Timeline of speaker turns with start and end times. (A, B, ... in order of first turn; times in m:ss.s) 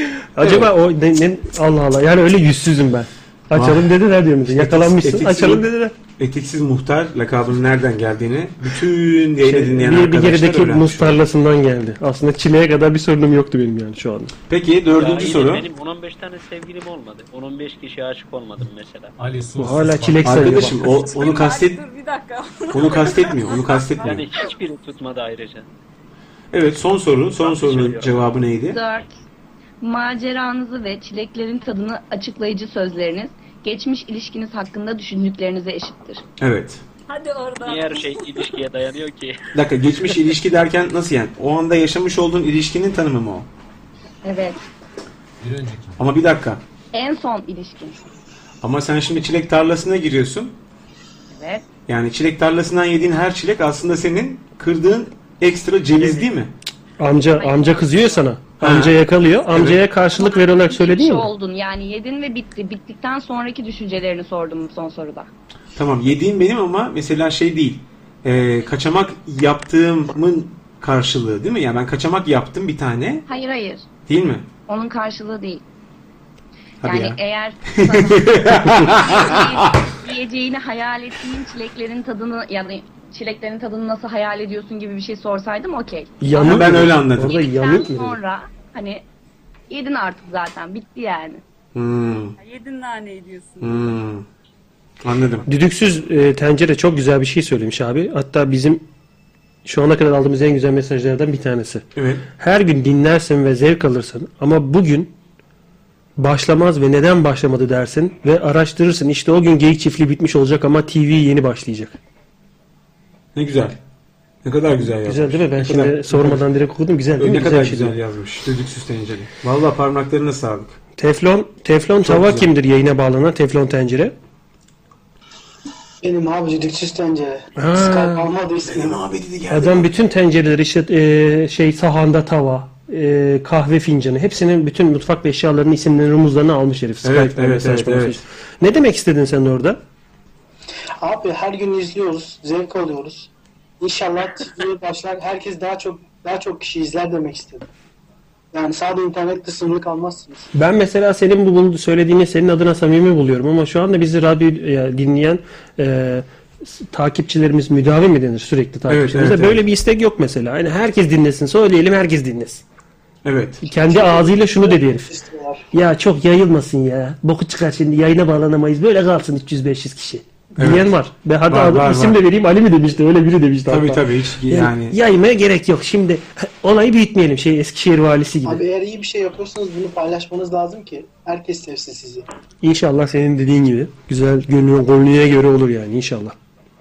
0:00.4-0:06.0 A
0:00.4-0:00.7 B
0:03.5-0:05.7 B
0:06.2-0:11.2 B
0:09.4-0:14.3 A
0:14.5-0:15.6 B
0:15.0-0:19.1 C
0:19.2-0:20.7 D
0:19.6-0:20.8 A
0:20.2-0:21.8 B
0:20.8-0:23.8 E
0:22.7-0:24.2 B
0:24.0-0:25.7 C
0:26.5-0:28.8 B
0:27.4-0:28.2 C
0:28.7-0:29.2 F
0:29.8-0:36.2 F
0:36.4-0:36.8 B
0:37.1-0:38.5 E
0:37.6-0:39.5 C
0:39.5-0:43.5 B
0:44.2-0:44.6 F
0:45.4-0:46.0 D
0:46.0-0:46.6 B
0:46.9-0:48.0 F
0:48.6-0:50.6 B
0:51.3-0:51.6 F
0:51.9-0:56.5 B
0:57.0-1:01.3 A
0:57.4-0:58.2 F
0:58.6-0:59.8 B
1:00.0-1:05.3 F
1:05.8-1:13.2 B
1:13.3-1:13.9 F
1:14.1-1:14.5 B
1:14.7-1:15.6 F
1:16.8-1:19.8 B
1:16.8-1:29.0 F
1:26.2-1:28.2 A
1:26.4-1:27.3 B
1:29.7-1:31.4 F
1:31.8-1:32.4 B
1:32.4-1:33.9 E
1:33.6-1:34.2 B
1:35.0-1:35.4 B
1:35.5-1:38.9 A
1:39.6-1:41.8 A
1:42.0-1:42.3 B
1:42.4-1:45.1 A
1:46.2-1:52.0 A
1:53.4-1:53.8 B
1:54.4-1:56.4 B
1:55.1-1:58.0 A
1:57.2-2:00.8 B
2:01.0-2:04.2 A
2:02.0-2:02.5 B
2:06.0-2:09.0 G
2:07.6-2:08.3 A
2:08.6-2:09.9 B
2:09.5-2:19.8 A
2:17.0-2:18.2 B
2:21.0-2:23.3 G
2:23.8-2:27.7 G
2:28.5-2:30.5 G
2:30.5-2:42.6 A
2:38.9-2:39.6 B
2:43.2-2:43.6 B
2:43.6-2:45.1 A
2:43.8-2:45.6 G
2:45.7-2:58.6 A
2:50.6-2:50.9 B
2:51.5-2:52.2 B
2:53.7-2:55.0 B
2:58.4-3:02.2 G
3:02.6-3:06.4 A